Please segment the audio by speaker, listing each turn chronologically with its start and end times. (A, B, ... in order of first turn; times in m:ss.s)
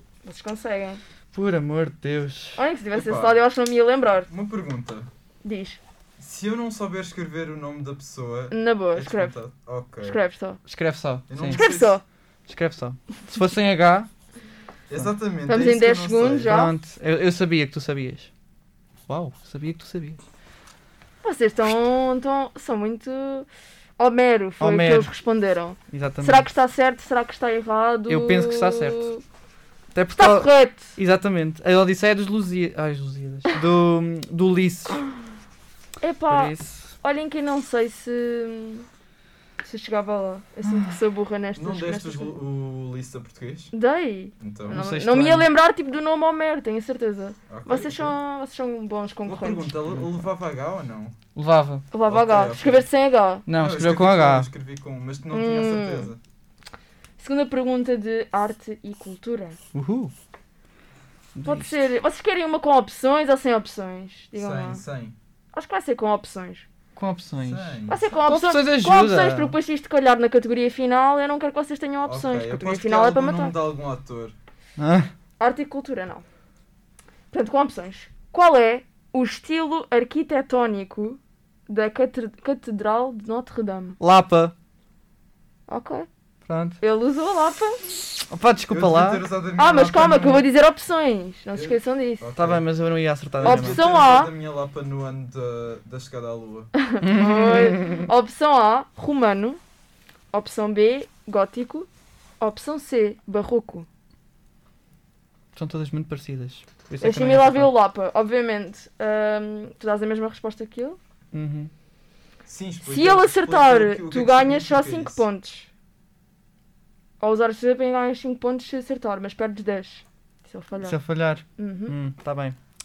0:00.2-0:01.0 A
0:01.3-0:02.6 B
0:02.6-0:04.3 A
0:02.9-0:03.4 C
0:04.3-0:05.1 C
0:05.4-0:05.8 A
0:06.2-0:10.2 C
0:08.5-0:09.4 A
0:10.0-0:10.6 A
0:10.7-0:11.6 B
0:11.3-0:12.0 C
0:11.5-0:12.0 A
0:12.5-0:14.1 B
0:14.9-0:16.6 C
0:15.5-0:16.7 A
0:16.4-0:18.3 B
0:19.1-0:20.2 B
0:21.2-0:29.2 A
0:24.6-0:25.1 B
0:25.9-0:26.4 B
0:28.1-0:29.1 B
0:29.9-0:35.0 B
0:30.2-0:30.9 A
0:36.0-0:38.9 A
0:36.3-0:36.9 B
0:39.6-0:42.3 A
0:40.6-0:41.0 B
0:41.6-0:43.7 C
0:43.7-0:49.8 A
0:44.4-0:44.8 C
0:44.7-0:45.5 B
0:47.5-0:48.1 C
0:49.2-0:51.1 C
0:51.3-0:51.9 B
0:51.9-0:53.4 A
0:52.1-0:52.9 C
0:53.5-0:54.5 B
0:53.5-0:56.2 C
0:55.3-0:56.1 A
0:57.2-0:59.6 A
0:59.7-1:00.1 B
1:01.3-1:01.9 B
1:01.4-1:04.8 A
1:04.3-1:05.2 C
1:05.5-1:06.6 A
1:07.0-1:09.5 B
1:07.4-1:08.0 C
1:07.9-1:13.5 A
1:12.0-1:14.3 C
1:14.8-1:15.1 B
1:15.4-1:16.2 A
1:17.3-1:24.0 A
1:24.0-1:24.5 B
1:25.7-1:26.1 A
1:26.4-1:26.8 B
1:26.8-1:27.8 A
1:28.3-1:29.3 B
1:28.7-1:30.4 C
1:29.6-1:32.2 A
1:31.5-1:32.7 C
1:32.3-1:33.8 B
1:33.3-1:36.7 C
1:33.4-1:34.3 A
1:36.8-1:39.6 A
1:37.0-1:38.1 B
1:40.3-1:41.9 A
1:42.4-1:43.9 A
1:45.5-1:47.7 B
1:47.0-1:51.0 A
1:51.3-1:51.7 B
1:52.4-1:55.2 C
1:52.8-1:55.7 A
1:57.2-2:01.0 A
2:00.8-2:02.6 B
2:01.6-2:01.9 A